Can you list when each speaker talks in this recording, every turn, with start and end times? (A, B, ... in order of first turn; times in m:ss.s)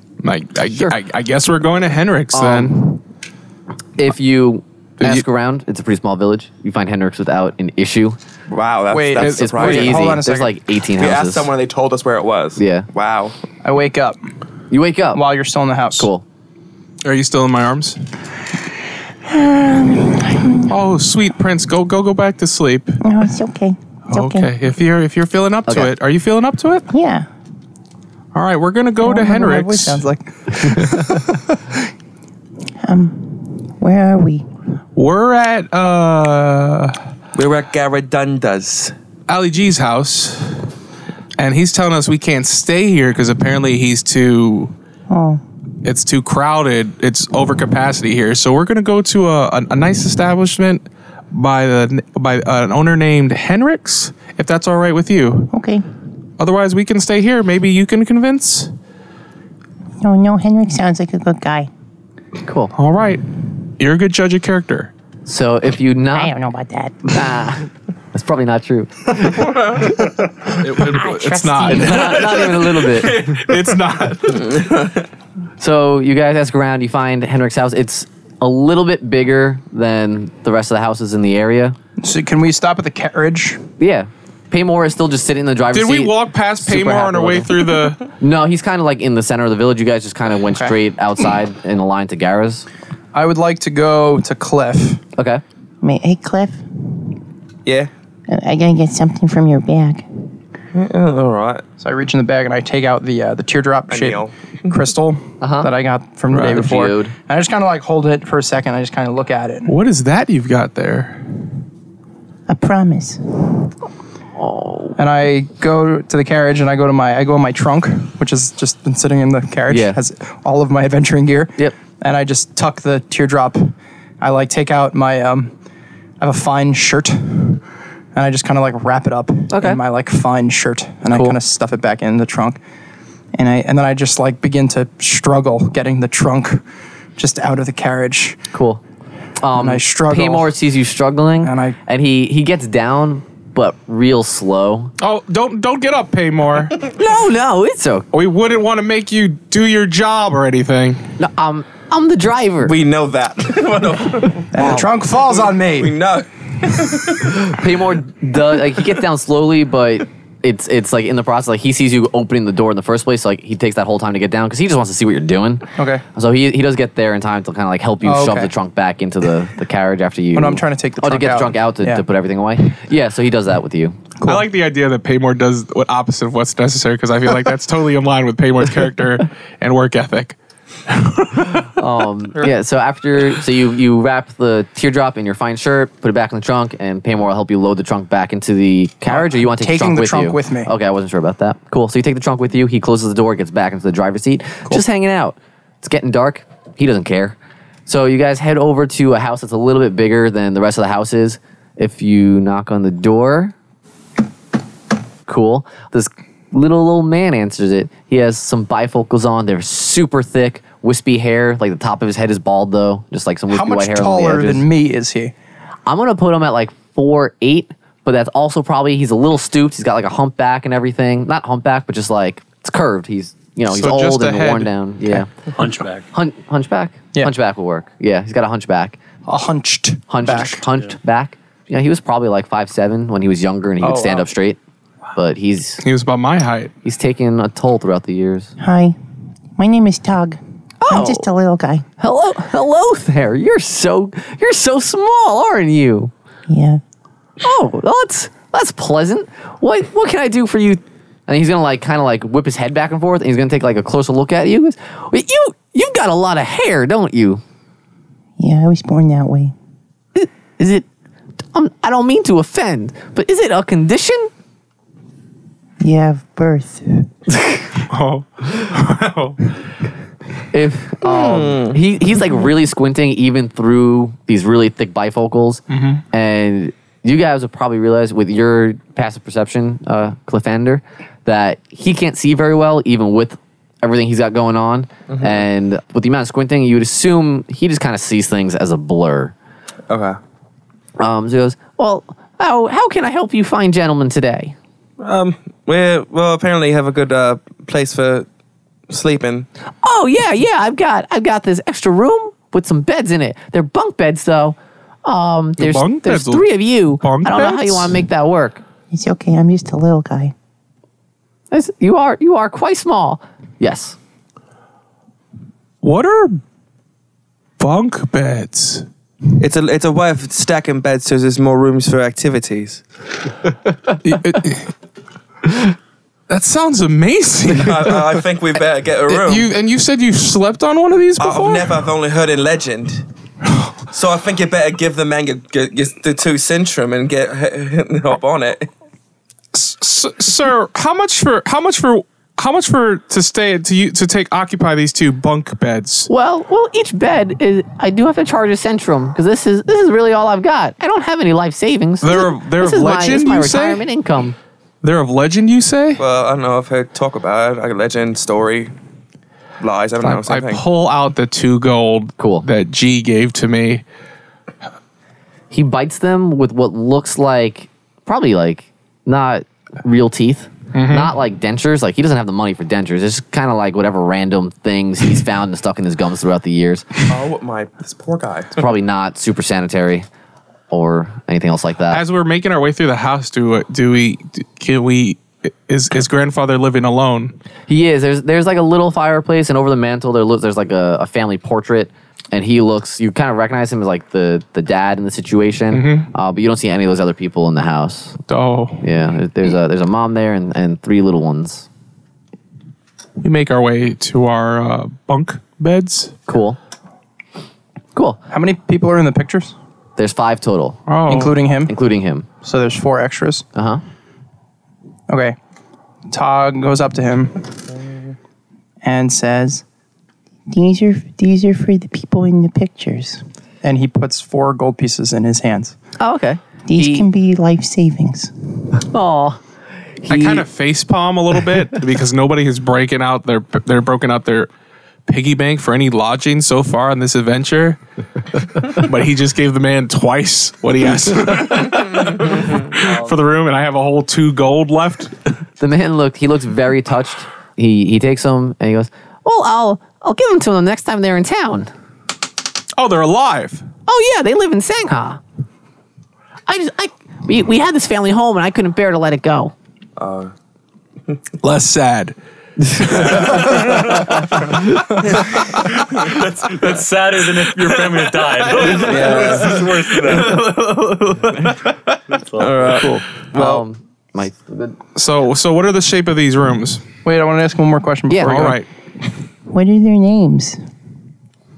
0:00.2-0:03.0 A
0:02.3-0:03.0 B
0:04.0-0:08.2 B
0:08.5-0:10.2 C
0:08.9-0:10.5 D
0:09.2-0:11.5 B
0:11.0-0:13.4 C
0:12.6-0:12.9 B
0:13.6-0:14.2 D
0:14.7-0:15.2 B
0:15.1-0:16.1 D
0:16.0-0:16.2 B
0:17.0-0:18.0 A
0:19.3-0:20.7 E
0:20.6-0:23.0 A
0:23.0-0:24.5 E
0:24.1-0:26.9 A
0:25.7-0:25.9 B
0:26.9-0:27.3 E
0:28.3-0:30.0 A
0:29.1-0:29.5 E
0:29.2-0:31.6 D
0:32.8-0:34.5 E
0:35.0-0:37.0 A
0:37.4-0:39.0 C
0:39.3-0:40.6 A
0:41.4-0:44.7 A
0:45.1-0:45.4 E
0:45.8-0:55.5 A
0:55.5-0:55.8 E
0:56.4-0:58.7 A
1:00.0-1:01.7 E
1:02.4-1:02.7 B
1:02.8-1:04.9 A
1:05.3-1:06.3 B
1:06.1-1:07.2 E
1:07.1-1:09.6 B
1:09.4-1:09.9 C
1:10.6-1:14.7 A
1:10.8-1:12.3 E
1:11.7-1:13.3 B
1:14.4-1:15.0 C
1:15.6-1:21.8 B
1:22.0-1:23.6 D
1:23.8-1:27.5 B
1:25.7-1:28.0 A
1:28.0-1:32.7 B
1:33.1-1:35.0 D
1:35.2-1:35.4 B
1:35.8-1:37.2 E
1:37.6-1:37.9 C
1:38.3-1:40.0 E
1:40.7-1:41.6 C
1:41.8-1:49.7 D
1:43.9-1:44.8 C
1:45.4-1:45.7 B
1:46.3-1:47.1 B
1:46.3-1:46.6 A
1:49.7-1:51.2 A
1:52.5-1:53.2 E
1:54.4-1:55.0 B
1:55.0-2:05.5 D
1:59.7-2:00.0 B
2:06.2-2:07.6 D
2:08.1-2:12.6 D
2:09.5-2:09.8 B
2:11.1-2:11.4 B
2:13.4-2:16.6 D
2:17.2-2:18.4 D
2:18.5-2:18.8 B
2:19.4-2:24.9 B
2:19.6-2:20.6 D
2:21.4-2:21.8 D
2:25.0-2:26.8 A
2:26.9-2:28.1 B
2:28.1-2:31.1 A
2:31.2-2:32.7 B
2:32.6-2:37.6 C
2:34.5-2:36.0 D
2:37.5-2:54.0 B
2:45.8-2:46.0 D
2:48.0-2:48.5 D
2:50.3-2:52.0 D
2:54.2-2:54.5 D
2:54.2-3:00.4 A
3:00.9-3:01.7 A
3:01.8-3:17.4 B
3:09.1-3:10.7 D
3:17.9-3:23.5 B
3:25.3-3:34.7 B
3:33.5-3:35.3 D
3:35.9-3:45.3 B
3:43.7-3:44.7 A
3:45.6-3:46.1 F
3:46.1-3:49.0 B
3:49.3-3:50.6 D
3:50.1-3:54.6 B
3:53.8-3:54.3 D
3:55.2-3:55.8 B
3:55.8-3:56.7 A
3:56.8-3:58.5 B
3:58.6-3:59.0 E
3:59.6-4:01.8 E
4:00.8-4:01.3 B
4:02.0-4:06.1 B
4:06.5-4:06.8 E
4:07.4-4:17.4 B
4:18.4-4:19.5 E
4:20.2-4:20.9 B
4:21.5-4:24.3 B
4:25.8-4:27.1 E
4:27.8-4:29.5 A
4:30.5-4:49.3 B
4:31.0-4:31.8 C
4:35.7-4:36.0 A
4:45.1-4:45.5 C
4:49.9-4:50.2 C
4:51.0-4:54.6 B
4:55.0-4:58.3 C
4:58.9-4:59.5 C
4:59.8-5:08.6 B
5:05.6-5:06.5 A
5:07.0-5:08.0 A
5:08.9-5:10.3 E
5:11.5-5:14.0 B
5:15.8-5:16.4 A
5:17.6-5:18.9 A
5:19.4-5:22.8 C
5:24.0-5:24.7 A
5:26.3-5:28.2 A
5:27.6-5:29.5 C
5:29.1-5:31.8 A
5:31.2-5:33.1 C
5:33.9-5:38.7 C
5:39.5-5:46.1 A
5:46.1-5:54.4 B
5:52.0-5:53.8 A
5:54.8-5:56.0 A
5:56.0-5:58.7 C
5:59.6-6:00.6 C
6:00.0-6:03.8 A
6:02.2-6:02.5 B
6:05.5-6:16.9 B
6:10.7-6:11.1 A
6:17.1-6:18.6 C
6:18.6-6:20.1 B
6:20.7-6:22.0 B
6:21.9-6:27.4 A
6:27.7-6:38.2 B
6:35.7-6:36.1 A
6:38.3-6:38.8 A
6:38.8-6:41.7 B
6:43.2-6:46.2 A
6:46.3-6:46.6 B
6:48.0-6:48.2 B
6:48.3-6:49.5 D
6:50.0-6:50.8 B
6:50.9-6:51.4 A
6:51.1-6:51.8 D
6:51.7-6:52.3 B
6:52.4-6:53.4 D
6:53.6-6:53.8 B
6:55.1-6:55.4 D
6:56.1-6:57.5 D
6:58.8-6:59.6 D
7:00.5-7:03.2 E
7:03.6-7:05.8 D
7:06.0-7:07.1 B
7:06.7-7:08.3 E
7:08.9-7:09.4 B
7:10.0-7:10.4 B
7:10.1-7:14.5 A
7:15.1-7:17.8 A
7:18.6-7:25.1 A
7:25.6-7:31.7 B
7:32.8-7:33.6 A
7:33.9-7:35.2 B
7:36.5-7:39.5 B
7:40.0-7:40.3 C
7:41.4-7:42.2 A
7:42.7-7:44.8 A
7:42.9-7:43.5 C
7:45.4-7:45.7 A
7:46.0-7:50.6 F
7:47.6-7:52.0 A
7:48.8-7:49.7 C
7:52.2-7:52.8 F
7:52.4-7:53.6 C
7:52.7-7:54.8 B
7:55.0-7:56.8 A
7:57.0-7:58.6 D
7:58.1-7:58.5 B
7:58.2-7:58.7 A
7:59.5-8:00.6 E